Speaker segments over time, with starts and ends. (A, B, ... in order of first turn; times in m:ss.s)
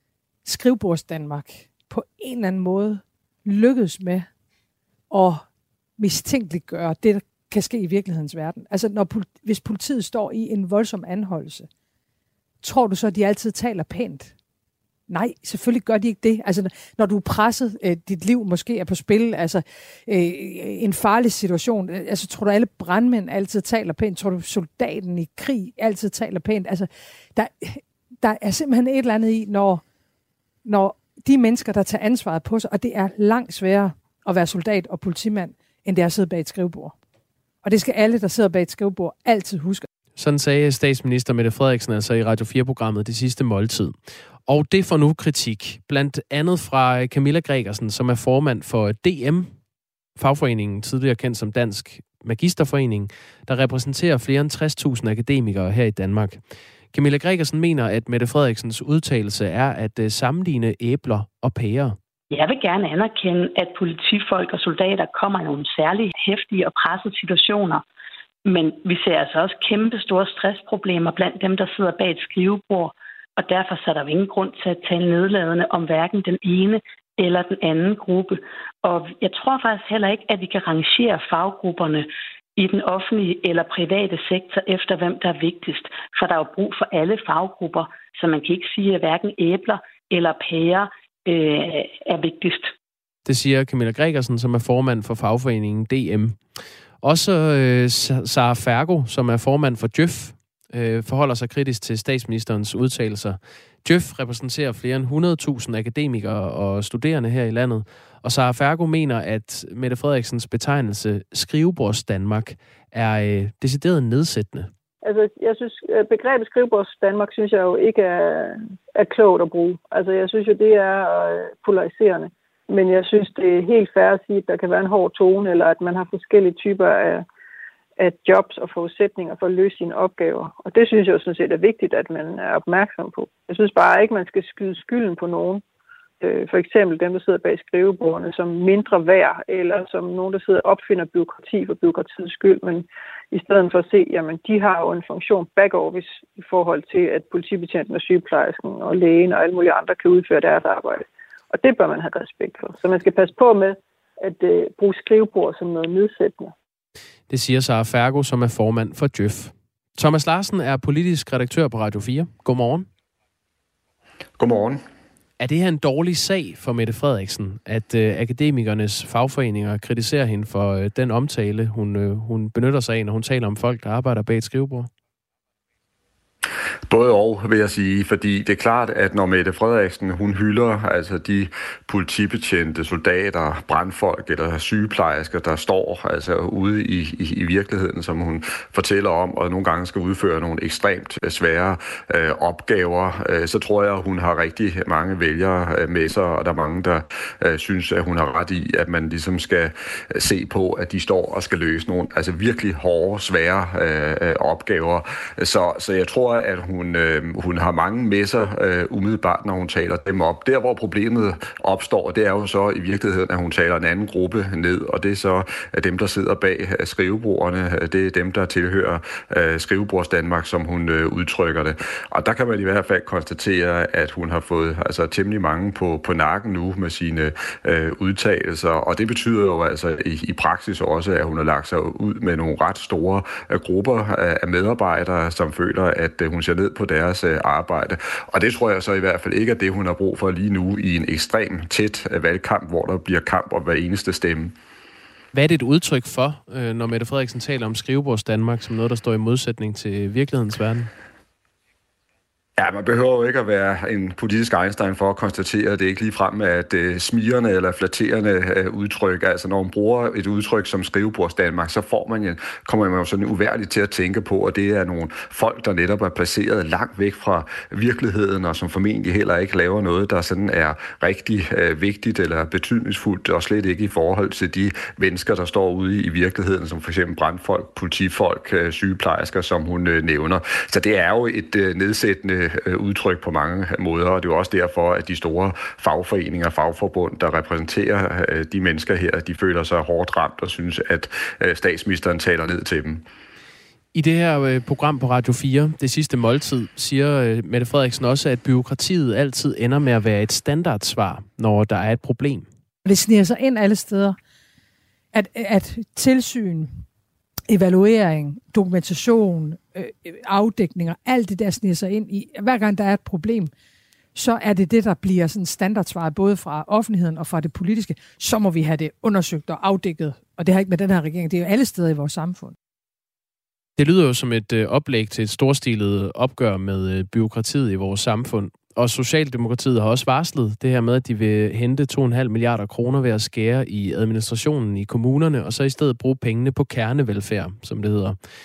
0:00.4-0:04.3 A
0:05.1-0:05.4 A
0:06.0-0:11.7 A
0:12.6-0:14.3 A
0:15.1-0:29.8 A
0:30.6-0:36.9 A
0:37.6-0:39.8 A
0:40.2-0:49.5 B
0:50.2-0:56.4 B
0:56.9-1:02.0 B
1:02.3-1:07.8 C
1:08.4-1:32.7 C
1:33.2-1:36.4 B
1:37.0-1:54.7 B
1:55.0-2:07.2 D
2:08.0-2:15.6 D
2:16.2-2:36.5 D
2:37.3-2:42.9 B
2:44.4-2:44.8 E
2:45.4-2:54.9 B
2:56.9-4:04.5 E
4:05.3-4:10.9 B
4:12.6-4:53.0 E
4:53.9-5:02.5 B
5:02.8-5:04.2 A
5:05.1-5:06.8 A
5:07.5-5:13.5 A
5:14.1-5:22.5 A
5:23.8-5:38.2 B